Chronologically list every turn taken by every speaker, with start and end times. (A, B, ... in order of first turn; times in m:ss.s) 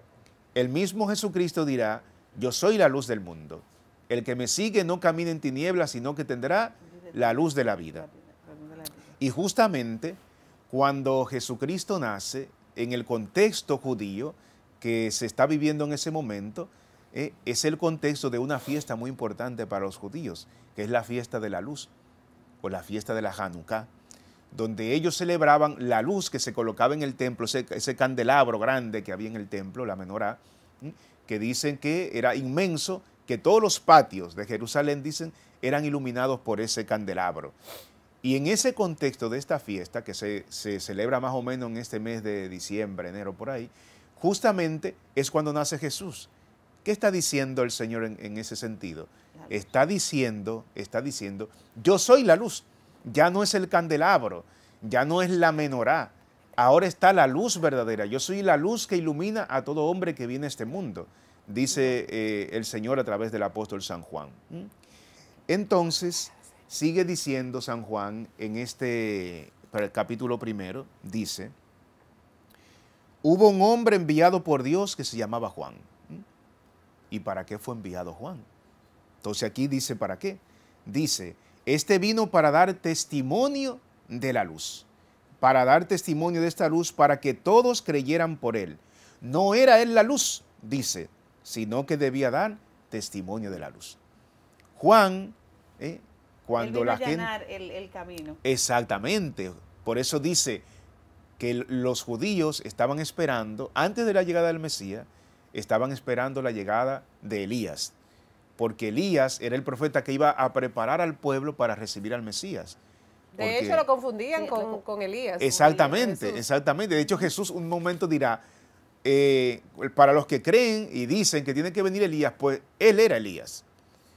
0:00.6-0:08.1 A
0:06.8-0:09.2 B
0:09.2-0:10.2 A
0:10.7-0:21.9 A
0:22.6-0:23.9 A
0:24.5-0:37.6 A
0:38.2-0:46.3 A
0:46.8-1:04.7 A
0:49.4-0:49.7 B
1:05.5-1:11.5 A
1:13.2-1:16.3 A
1:17.1-1:18.5 A
1:19.2-1:24.9 A
1:25.4-1:34.0 A
1:34.8-1:37.3 A
1:36.6-1:38.4 B
1:38.4-1:40.6 A
1:41.4-1:48.0 A
1:48.6-1:52.8 A
1:53.3-1:56.4 C
1:53.4-1:53.8 A
1:54.4-1:54.8 B
1:55.4-1:58.4 A
1:55.5-1:56.2 B
1:59.0-2:03.6 A